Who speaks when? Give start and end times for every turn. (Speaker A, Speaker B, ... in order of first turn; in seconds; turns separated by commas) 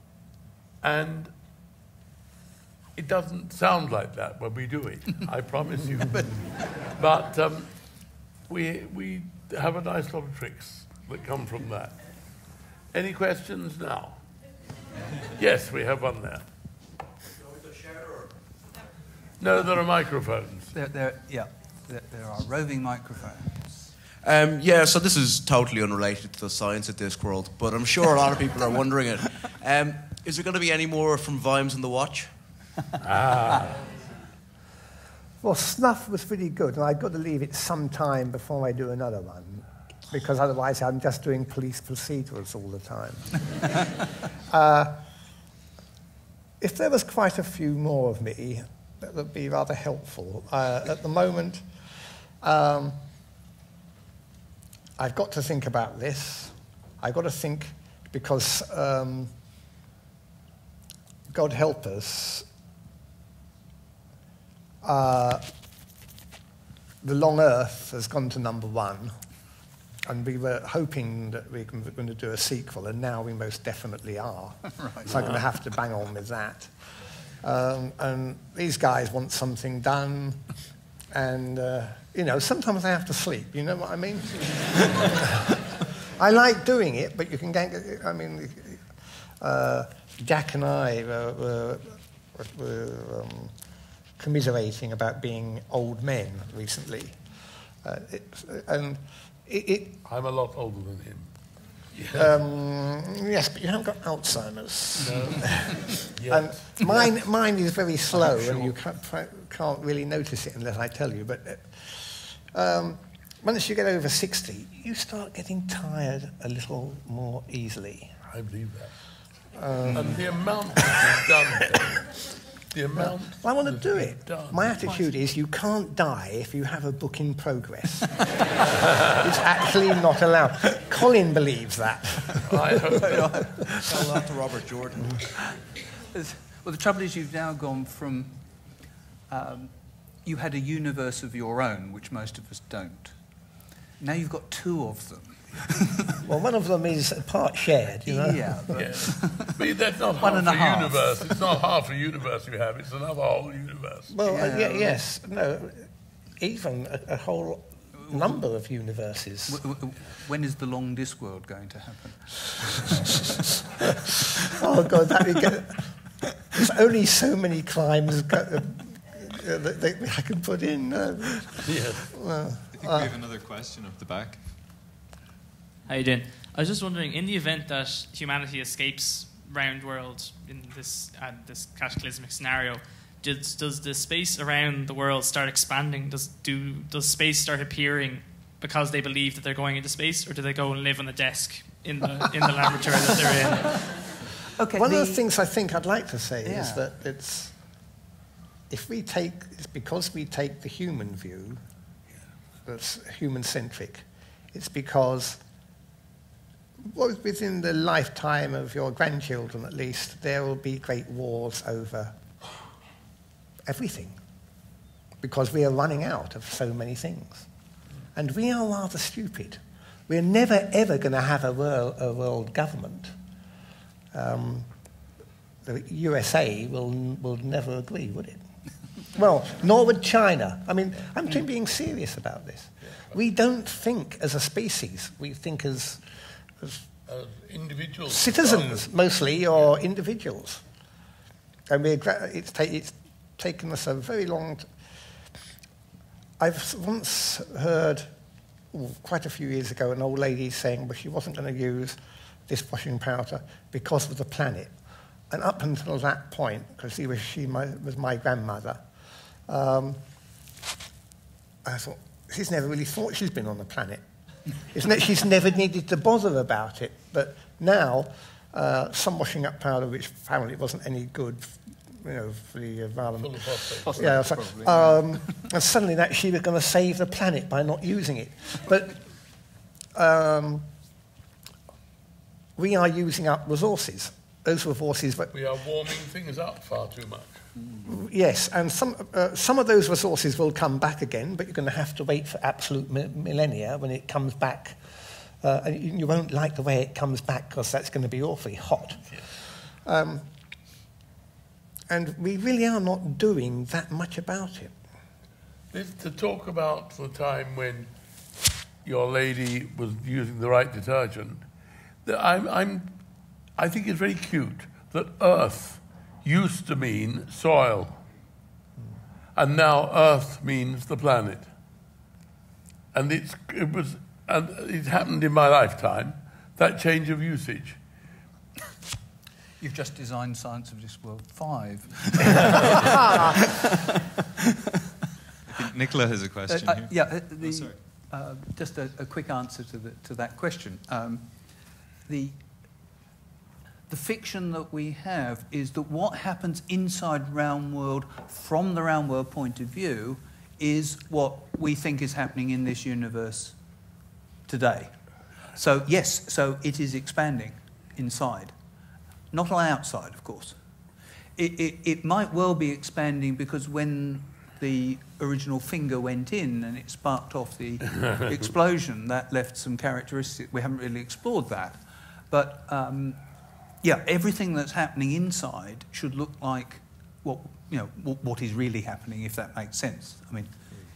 Speaker A: 0.8-1.3, Speaker A: 3.0-6.3, Speaker A: 7.0-7.7, Speaker A: 8.5-12.0, Speaker A: 12.9-14.2, Speaker A: 15.3-16.4, Speaker A: 19.4-20.7, Speaker B: 20.7-23.7, Speaker C: 24.2-32.3, Speaker A: 33.0-33.8, Speaker D: 35.4-43.7, Speaker D: 44.5-45.0, Speaker D: 46.6-51.6, Speaker D: 52.4-53.0, Speaker D: 55.0-59.3, Speaker D: 61.3-62.5, Speaker D: 64.8-65.4, Speaker D: 67.0-69.1, Speaker D: 70.0-76.7, Speaker B: 74.7-75.3, Speaker D: 77.4-80.5, Speaker D: 81.1-88.8, Speaker D: 89.4-93.5, Speaker D: 94.2-97.2, Speaker D: 97.8-100.0, Speaker A: 100.0-101.3, Speaker A: 101.9-102.3, Speaker D: 102.1-118.1, Speaker A: 105.0-107.1, Speaker A: 118.3-118.9, Speaker D: 119.5-120.3, Speaker B: 119.9-120.2, Speaker A: 119.9-122.1, Speaker A: 122.7-125.0, Speaker D: 122.9-128.3, Speaker D: 129.0-133.0, Speaker A: 132.4-133.6, Speaker B: 133.0-134.3, Speaker B: 136.1-138.4, Speaker B: 139.3-139.7, Speaker B: 140.2-143.2, Speaker B: 144.0-146.2, Speaker D: 146.2-148.4, Speaker B: 148.1-149.5, Speaker A: 148.8-154.1, Speaker B: 150.2-151.4, Speaker D: 154.1-159.6, Speaker B: 154.2-155.0, Speaker B: 159.5-163.3, Speaker D: 164.5-165.9, Speaker D: 166.5-173.1, Speaker A: 171.6-172.1, Speaker E: 172.7-174.5, Speaker F: 175.9-193.8, Speaker B: 194.6-195.3, Speaker D: 194.8-197.5, Speaker B: 196.4-196.9, Speaker D: 198.7-201.6, Speaker D: 202.6-205.4, Speaker D: 206.8-212.2, Speaker D: 213.7-214.2, Speaker D: 215.2-217.5, Speaker D: 218.1-223.1, Speaker D: 224.1-224.7, Speaker D: 225.6-228.4, Speaker D: 229.1-236.1, Speaker D: 236.6-236.8, Speaker A: 237.1-238.8, Speaker D: 238.1-240.6, Speaker D: 241.7-244.7, Speaker D: 246.4-248.1, Speaker D: 248.7-252.0, Speaker D: 252.5-254.7, Speaker D: 255.3-258.8, Speaker D: 259.5-260.0, Speaker D: 261.6-264.0, Speaker D: 264.6-279.0, Speaker A: 273.2-274.1, Speaker B: 273.8-275.3, Speaker D: 279.9-280.7, Speaker D: 282.6-285.3, Speaker A: 285.3-287.4, Speaker D: 287.9-294.8, Speaker D: 295.4-299.1, Speaker D: 299.8-300.2, Speaker D: 301.9-304.8, Speaker A: 305.7-307.9, Speaker A: 308.8-311.4, Speaker A: 312.1-312.9, Speaker A: 313.6-318.0, Speaker A: 319.4-321.5, Speaker A: 322.9-327.8, Speaker B: 329.6-334.1, Speaker E: 335.5-337.8, Speaker B: 336.5-341.3, Speaker B: 342.1-342.4, Speaker B: 343.9-353.6, Speaker B: 354.5-354.9, Speaker B: 355.6-358.6, Speaker B: 359.3-360.6, Speaker B: 361.4-373.2, Speaker B: 373.8-380.5